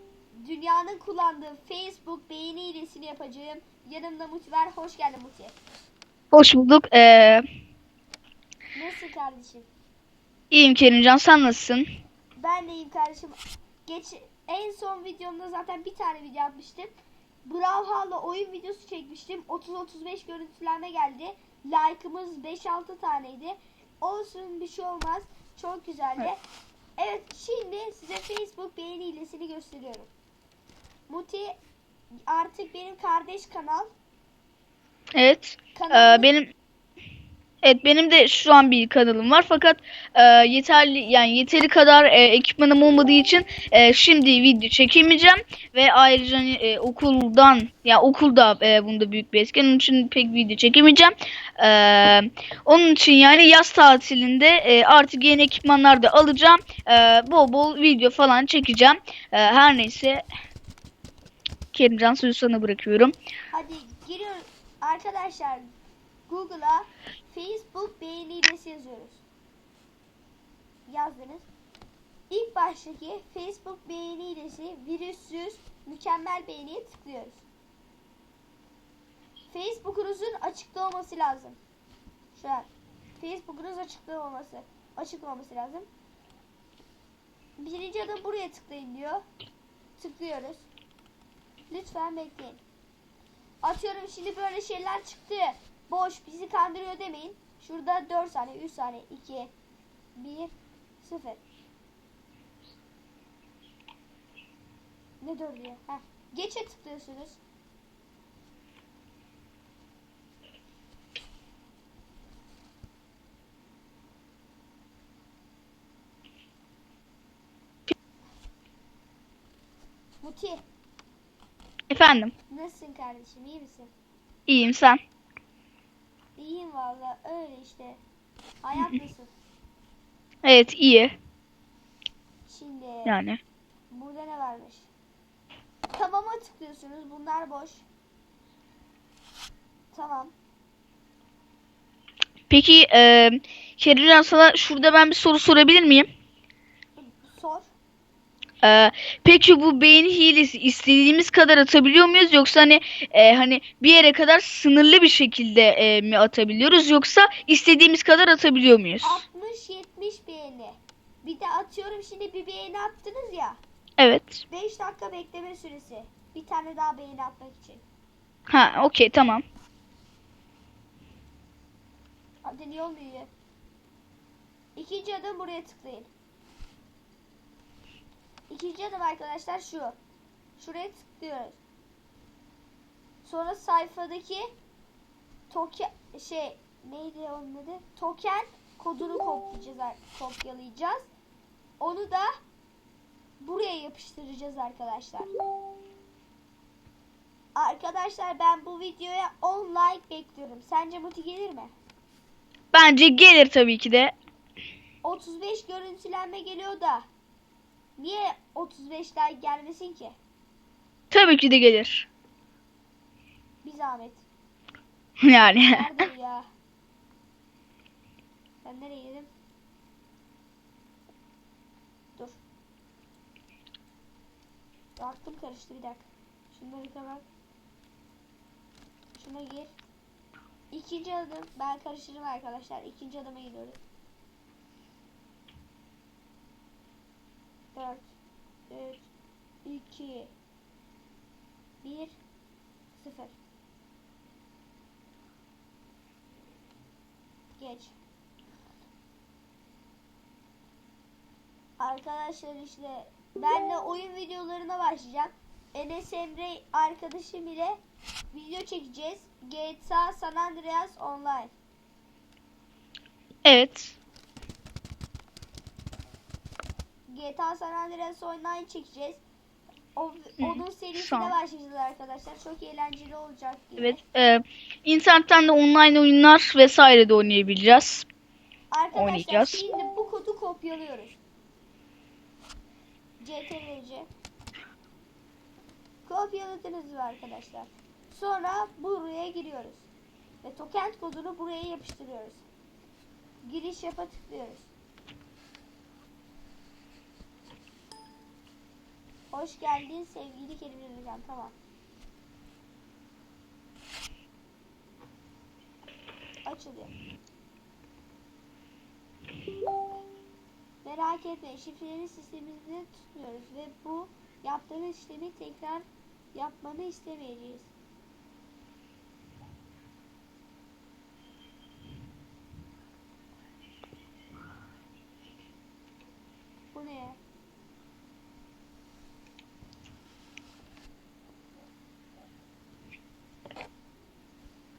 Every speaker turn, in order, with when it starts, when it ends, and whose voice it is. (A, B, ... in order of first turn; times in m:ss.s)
0:00.3-0:05.5 A
0:06.3-0:07.4 B
0:08.7-0:09.7 A
0:10.5-0:11.8 B
0:12.4-0:16.9 A
0:17.4-0:26.4 A
0:27.0-0:30.1 A
0:31.1-0:31.6 A
0:32.3-0:33.9 A
0:35.2-0:36.5 B
0:35.7-0:36.3 A
0:37.6-1:00.2 B
1:01.7-1:03.1 B
1:03.5-1:05.7 A
1:06.3-1:09.2 A
1:10.9-1:11.5 A
1:12.3-1:17.4 A
1:19.5-1:21.6 A
1:22.3-1:25.9 A
1:27.6-1:29.2 A
1:30.0-1:30.7 A
1:31.7-1:32.6 A
1:33.6-1:39.5 A
1:40.2-1:41.4 A
1:45.2-1:47.4 A
2:00.2-2:00.6 A
2:01.9-2:02.3 B
2:02.5-2:03.9 A
2:04.5-2:05.0 B
2:06.4-2:08.0 A
2:08.6-2:09.3 A
2:10.4-2:11.1 B
2:12.5-2:13.2 A
2:13.0-2:13.4 B
2:13.9-2:14.9 A
2:15.9-2:17.8 A
2:19.9-2:20.3 A
2:22.5-2:26.1 B
2:27.0-2:27.7 A
2:28.6-2:39.2 B
2:39.0-2:43.6 A
2:44.0-2:44.4 B
2:44.5-2:47.8 A
2:48.5-2:49.4 B
2:52.4-2:53.3 A
2:54.8-2:56.1 A
2:58.5-3:00.0 A
3:00.6-3:01.6 A
3:03.2-3:04.5 A
3:05.5-3:11.1 A
3:11.8-3:12.3 A
3:13.4-3:15.3 A
3:17.5-3:21.7 A
3:22.7-3:24.1 B
3:25.0-3:27.1 A
3:28.0-3:30.2 A
3:31.1-3:32.1 B
3:33.6-3:34.2 A
3:35.2-3:35.9 B
3:35.6-3:36.5 A
3:38.6-3:39.3 A
3:42.1-3:42.4 A
3:45.0-3:47.2 A
3:49.1-3:49.7 A
3:50.7-3:53.8 A
3:57.7-3:58.1 A
3:58.7-3:59.1 A
3:59.6-4:00.3 A
4:01.8-4:02.2 A
4:03.0-4:03.4 A
4:07.6-4:07.9 A
4:11.8-4:17.8 A
4:18.3-4:21.5 A
4:23.4-4:24.0 B
4:27.1-4:29.2 A
4:29.9-4:34.0 A
4:30.4-4:31.3 B
4:33.8-4:38.0 B
4:38.7-4:41.2 A
4:38.9-4:39.6 B
4:43.2-4:44.1 A
4:46.0-4:49.9 A
4:50.4-4:52.4 A
4:53.4-4:54.7 A
4:59.3-5:01.5 A
5:06.4-5:06.9 A
5:10.8-5:17.7 A
5:26.7-5:27.2 A